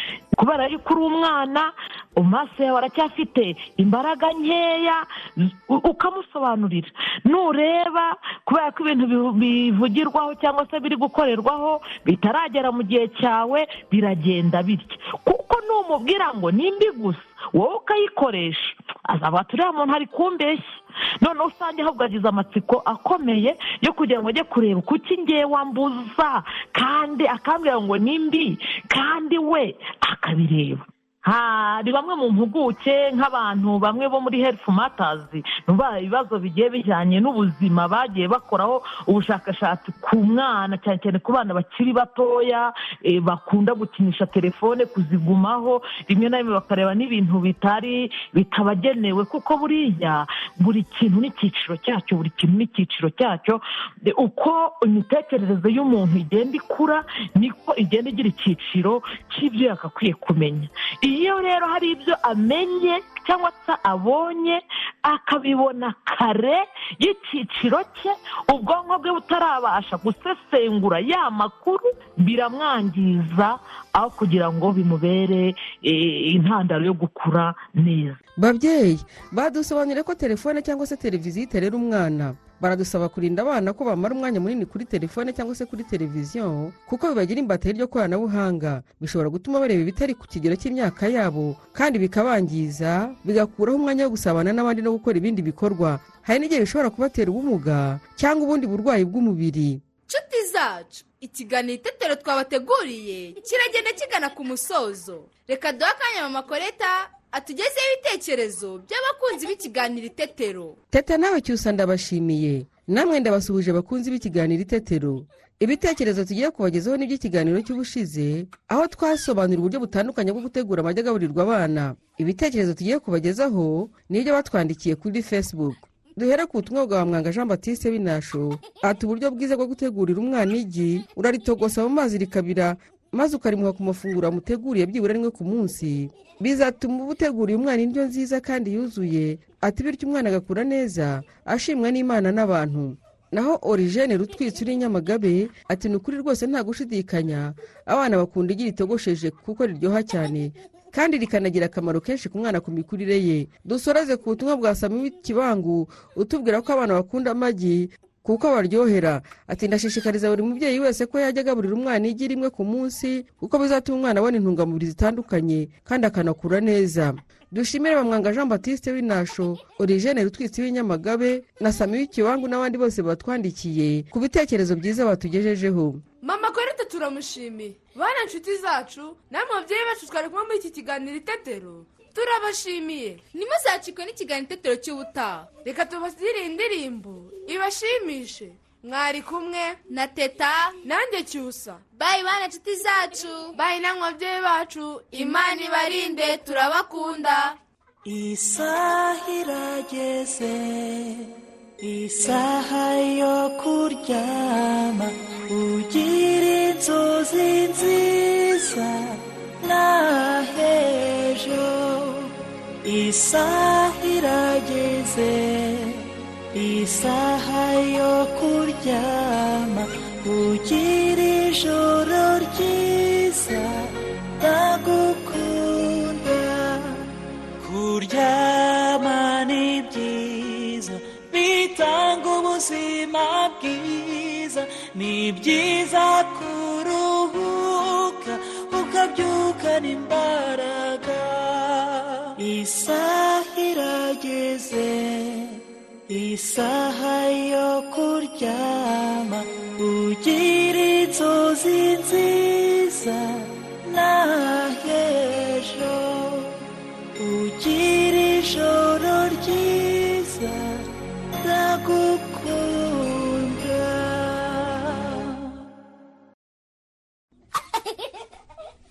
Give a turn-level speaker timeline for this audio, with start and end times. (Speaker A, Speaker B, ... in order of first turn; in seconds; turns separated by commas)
Speaker A: 0.3-78.2, Speaker B: 78.4-99.8, Speaker C: 100.1-110.8, Speaker B: 110.9-176.0, Speaker D: 176.2-183.2, Speaker C: 183.3-185.5, Speaker D: 185.6-189.8, Speaker C: 189.9-190.8, Speaker D: 190.8-191.8, Speaker C: 191.9-193.6, Speaker D: 193.6-195.2, Speaker C: 195.2-197.6, Speaker E: 198.1-212.3, Speaker E: 212.8-227.1, Speaker E: 227.6-256.6, Speaker E: 257.2-260.9, Speaker E: 261.4-265.4